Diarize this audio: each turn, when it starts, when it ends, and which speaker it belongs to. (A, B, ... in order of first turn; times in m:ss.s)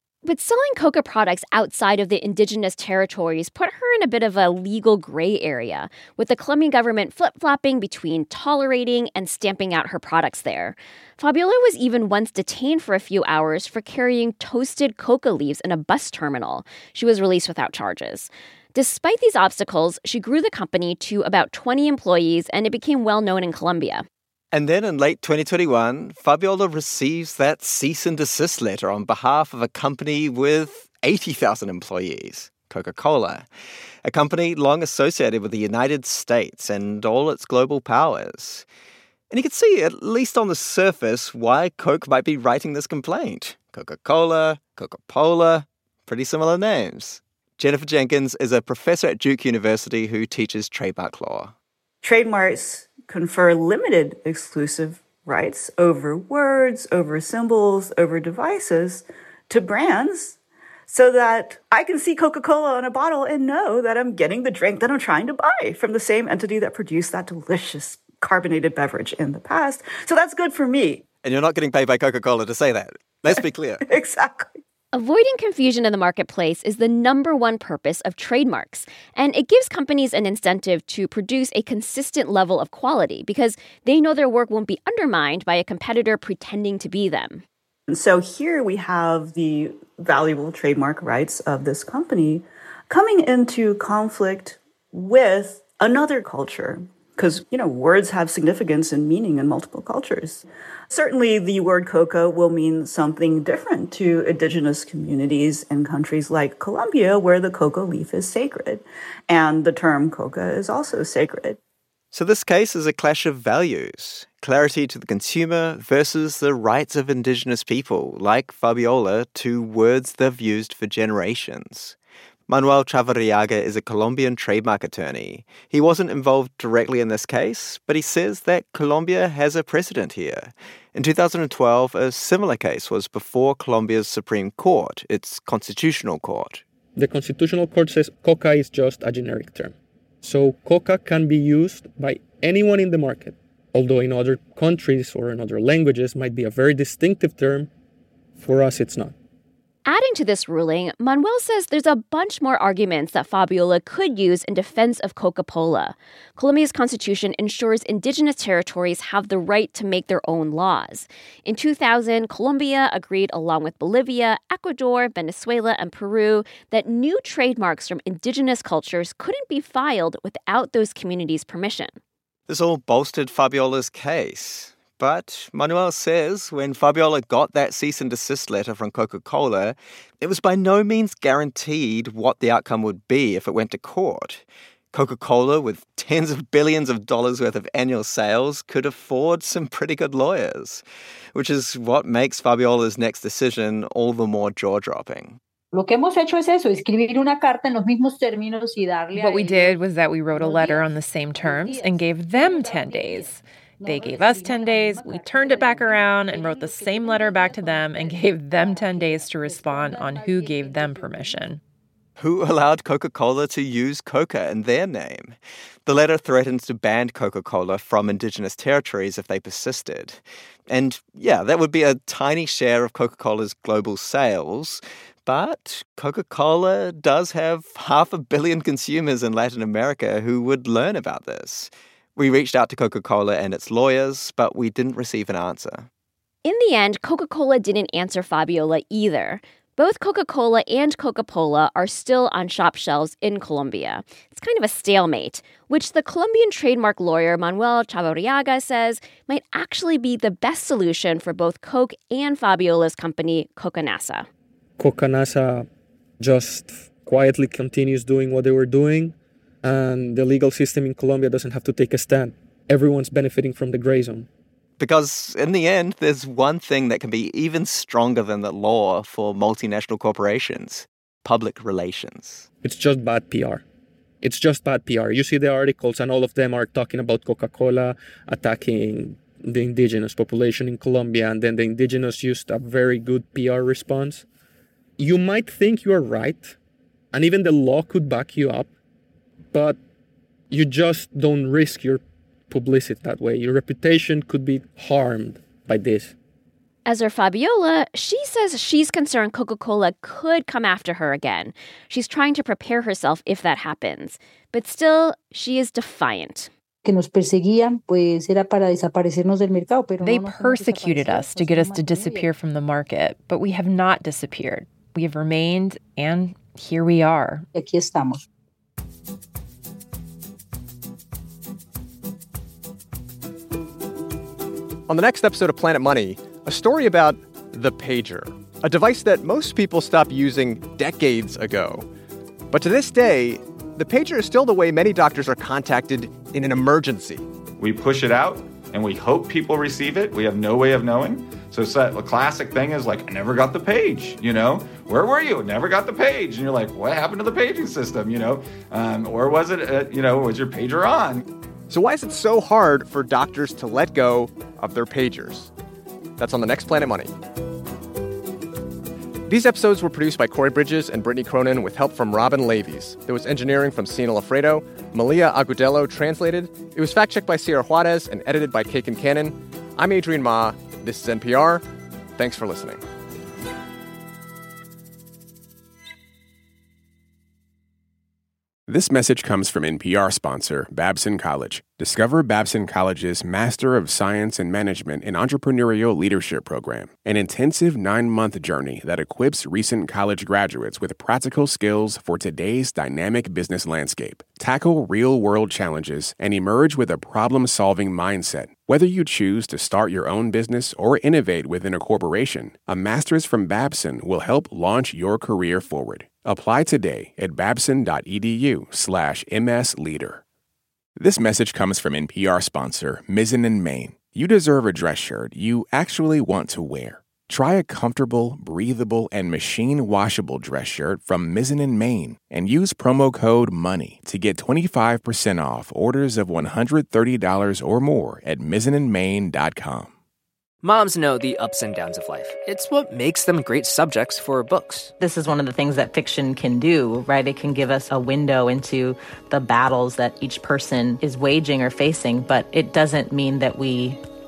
0:00.2-0:24.1 A
0:24.5-0:33.5 B
0:34.0-0:38.7 B
0:39.3-0:51.5 B
0:52.0-1:11.0 C
1:11.2-1:13.8 B
1:13.3-1:14.6 C
1:14.9-1:27.4 A
1:27.9-1:51.6 C
1:52.1-2:02.0 B
2:02.5-2:16.6 B
2:17.0-2:27.7 D
2:28.4-2:29.1 D
2:29.9-2:52.0 A
2:52.5-3:15.4 B
3:15.7-3:19.8 E
3:19.1-3:31.6 F
3:20.3-3:31.5 E
3:32.2-3:55.9 B
3:56.4-4:14.3 A
4:14.8-4:15.7 D
4:16.2-4:24.3 D
4:24.8-4:32.5 B
4:32.6-4:33.6 D
4:34.2-4:44.2 D
4:45.0-4:46.6 D
4:47.1-4:48.7 D
4:49.5-4:49.8 D
4:50.5-4:56.2 D
4:56.9-5:06.5 A
5:06.8-5:12.3 E
5:10.0-5:17.5 F
5:17.5-5:18.3 E
5:24.9-5:31.9 G
5:32.5-5:37.3 G
5:37.6-5:51.2 H
5:51.7-5:55.5 G
5:56.2-5:57.1 G
5:59.3-6:11.6 G
6:12.2-6:12.8 G
6:18.7-6:50.2 I
6:51.0-7:09.9 I
7:10.6-7:14.9 J
7:15.0-7:24.0 K